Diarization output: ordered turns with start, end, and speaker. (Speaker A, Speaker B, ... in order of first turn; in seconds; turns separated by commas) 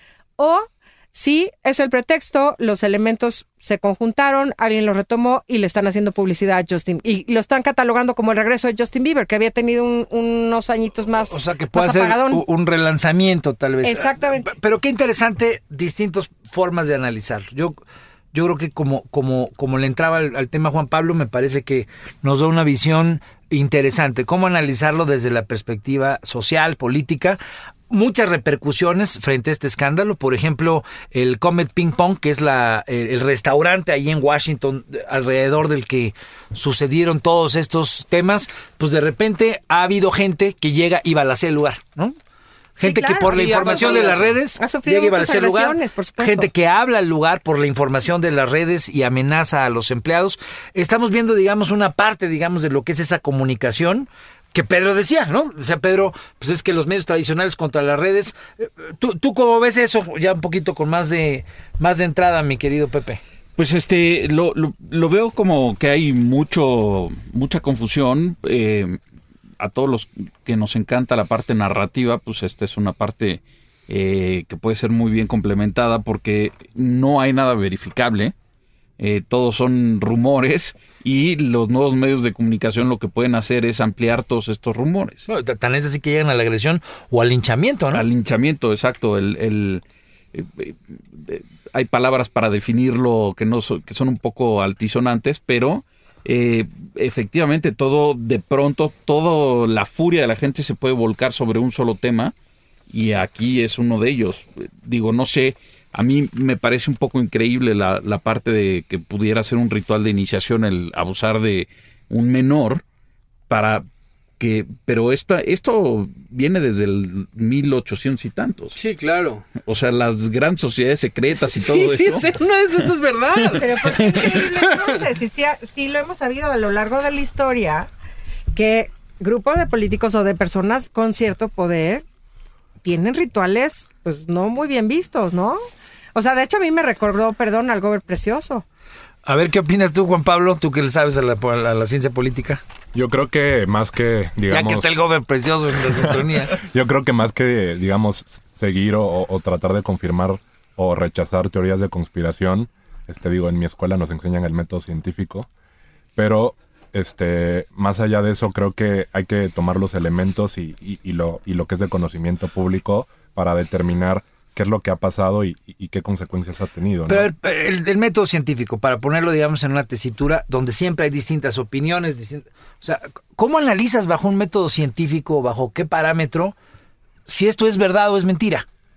Speaker A: 0.4-12.4, Speaker B: 11.3-17.8, Speaker A: 13.8-14.5, Speaker B: 18.3-27.4, Speaker B: 27.9-42.1, Speaker B: 42.8-63.2, Speaker A: 42.8-46.5, Speaker C: 43.3-44.3, Speaker D: 63.6-69.0, Speaker D: 69.6-78.3, Speaker D: 79.0-85.2, Speaker B: 85.3-88.0, Speaker D: 87.9-89.8, Speaker D: 90.3-102.3, Speaker D: 102.9-112.8, Speaker D: 113.5-113.8, Speaker D: 114.4-118.8, Speaker C: 118.8-119.5, Speaker D: 119.6-122.3, Speaker C: 121.5-124.9, Speaker A: 123.6-127.9, Speaker A: 128.5-132.1, Speaker A: 132.8-135.6, Speaker A: 136.1-138.6, Speaker B: 139.2-142.6, Speaker E: 142.9-145.0, Speaker B: 144.5-146.6, Speaker E: 145.9-155.5, Speaker E: 156.2-167.3, Speaker B: 167.1-176.5, Speaker B: 177.3-178.7